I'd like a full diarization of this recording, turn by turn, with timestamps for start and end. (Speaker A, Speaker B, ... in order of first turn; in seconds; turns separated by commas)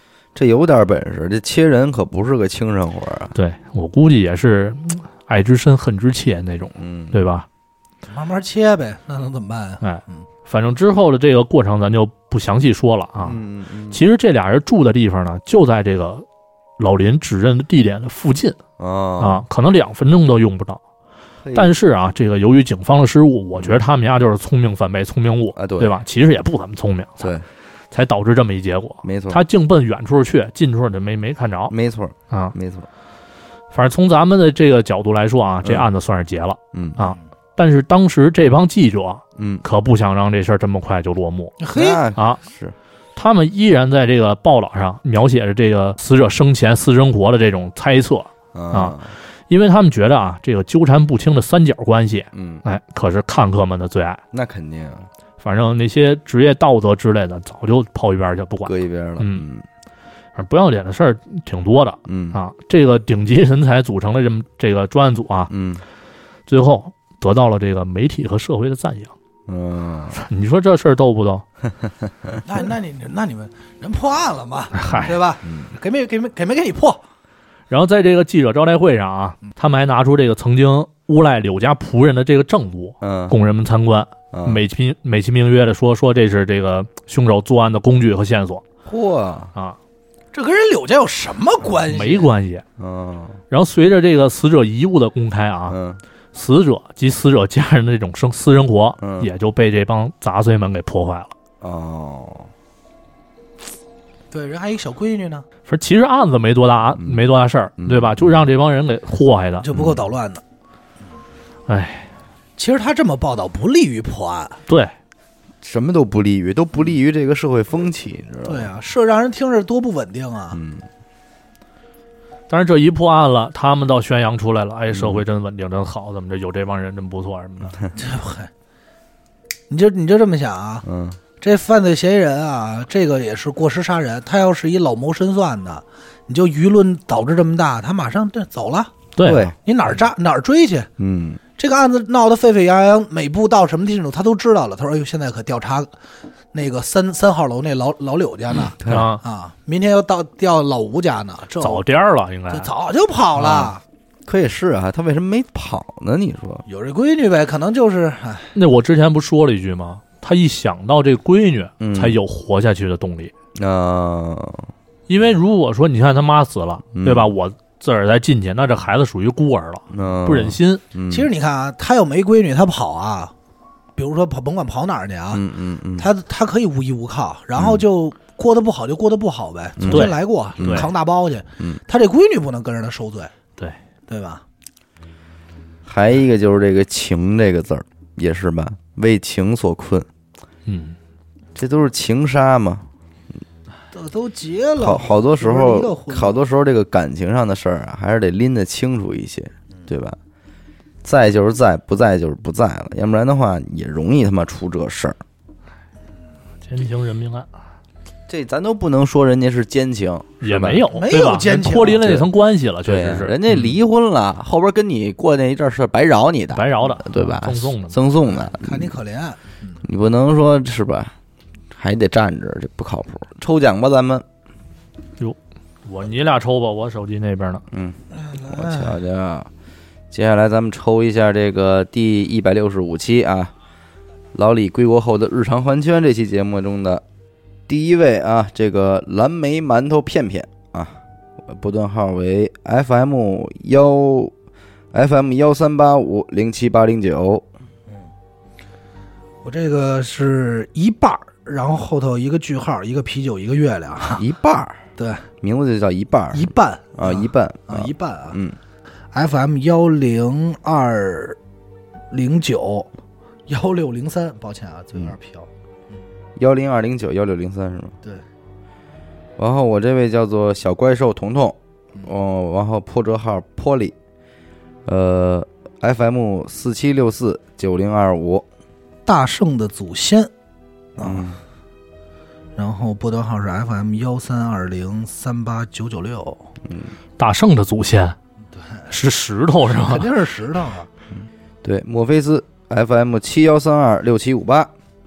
Speaker A: 0.3-3.3, Speaker B: 3.4-7.5, Speaker A: 6.8-7.2, Speaker C: 8.1-10.3, Speaker B: 9.8-13.4, Speaker A: 13.2-14.0, Speaker B: 13.9-16.2, Speaker B: 16.8-18.6, Speaker A: 18.8-19.4, Speaker B: 19.2-20.8, Speaker A: 21.4-21.7, Speaker B: 21.5-27.3, Speaker A: 23.6-23.8, Speaker A: 25.6-25.9, Speaker A: 27.2-27.4, Speaker B: 27.9-31.7, Speaker A: 29.0-29.4, Speaker A: 31.7-32.9, Speaker B: 33.7-41.6, Speaker A: 36.7-37.0, Speaker A: 39.4-39.6, Speaker C: 41.6-42.0, Speaker A: 41.7-42.8, Speaker B: 43.2-49.0, Speaker A: 48.5-49.1, Speaker B: 49.5-54.2, Speaker A: 52.3-52.6, Speaker A: 54.3-55.1, Speaker B: 55.4-59.4, Speaker A: 58.6-59.6, Speaker B: 60.4-65.5, Speaker A: 62.1-62.4, Speaker A: 65.5-65.8, Speaker B: 66.5-69.1, Speaker A: 69.5-70.2, Speaker B: 70.2-71.4, Speaker C: 72.5-77.0, Speaker B: 74.8-75.2, Speaker A: 75.4-75.7, Speaker B: 77.7-88.6, Speaker A: 83.0-83.4, Speaker A: 84.3-84.6, Speaker A: 88.9-89.5, Speaker C: 90.3-92.3, Speaker B: 91.9-92.6, Speaker A: 92.8-93.4, Speaker B: 93.5-95.8, Speaker A: 95.7-96.0, Speaker B: 96.3-101.3, Speaker A: 99.0-99.3, Speaker A: 101.6-102.5, Speaker C: 104.3-105.5, Speaker B: 105.7-109.7, Speaker A: 107.0-107.2, Speaker A: 107.8-108.3, Speaker C: 109.6-110.4, Speaker A: 109.7-110.0, Speaker B: 111.7-112.1, Speaker C: 112.6-114.6, Speaker A: 115.6-118.7, Speaker C: 118.5-120.6, Speaker A: 120.5-120.9, Speaker B: 122.5-127.8, Speaker A: 124.9-125.2, Speaker C: 128.0-128.5, Speaker C: 129.7-130.8, Speaker A: 130.8-131.2, Speaker C: 131.4-138.9, Speaker B: 139.2-139.5, Speaker A: 139.2-139.6, Speaker C: 139.6-140.9, Speaker A: 141.0-141.4, Speaker C: 141.6-145.9, Speaker C: 146.5-151.8, Speaker A: 148.8-149.1, Speaker B: 148.8-149.2, Speaker B: 151.6-152.7, Speaker C: 152.5-153.8, Speaker A: 153.4-153.8, Speaker A: 154.3-156.7, Speaker C: 156.7-158.6, Speaker B: 158.6-163.3, Speaker A: 161.8-162.2, Speaker A: 163.6-164.7, Speaker B: 165.1-170.8, Speaker A: 166.9-167.3, Speaker A: 169.9-171.3, Speaker C: 171.1-173.3, Speaker C: 174.0-175.4, Speaker A: 175.3-176.1, Speaker C: 176.0-183.3, Speaker A: 177.6-177.8, Speaker A: 179.8-180.9, Speaker B: 179.9-180.9, Speaker C: 184.1-184.4, Speaker A: 185.9-190.1, Speaker B: 190.7-191.0, Speaker A: 191.6-192.9, Speaker C: 193.9-196.4, Speaker A: 194.8-200.2, Speaker A: 201.0-205.2, Speaker B: 206.7-207.5, Speaker A: 208.3-210.8, Speaker B: 210.4-213.7, Speaker C: 210.9-212.2, Speaker A: 212.0-212.2, Speaker A: 212.8-218.9, Speaker B: 216.5-218.0, Speaker C: 218.2-219.8, Speaker A: 219.8-221.1, Speaker A: 221.7-224.2, Speaker B: 225.2-227.6, Speaker A: 227.7-229.5, Speaker C: 228.1-228.9, Speaker A: 230.1-233.5, Speaker A: 234.3-237.0, Speaker A: 237.7-244.3, Speaker A: 244.9-247.4, Speaker C: 249.4-254.2, Speaker A: 254.2-254.8, Speaker C: 255.0-255.3, Speaker A: 255.4-258.6, Speaker C: 256.3-258.4, Speaker C: 259.1-261.4, Speaker C: 262.1-262.9, Speaker C: 263.5-265.5, Speaker A: 266.4-268.0, Speaker A: 269.4-273.9, Speaker A: 274.9-278.4, Speaker C: 279.1-280.3, Speaker A: 281.0-281.4, Speaker C: 281.0-281.2, Speaker C: 282.6-286.5, Speaker A: 286.6-286.9, Speaker B: 287.2-288.2, Speaker C: 288.5-288.9, Speaker B: 288.9-290.1, Speaker C: 289.7-290.9, Speaker A: 291.2-294.7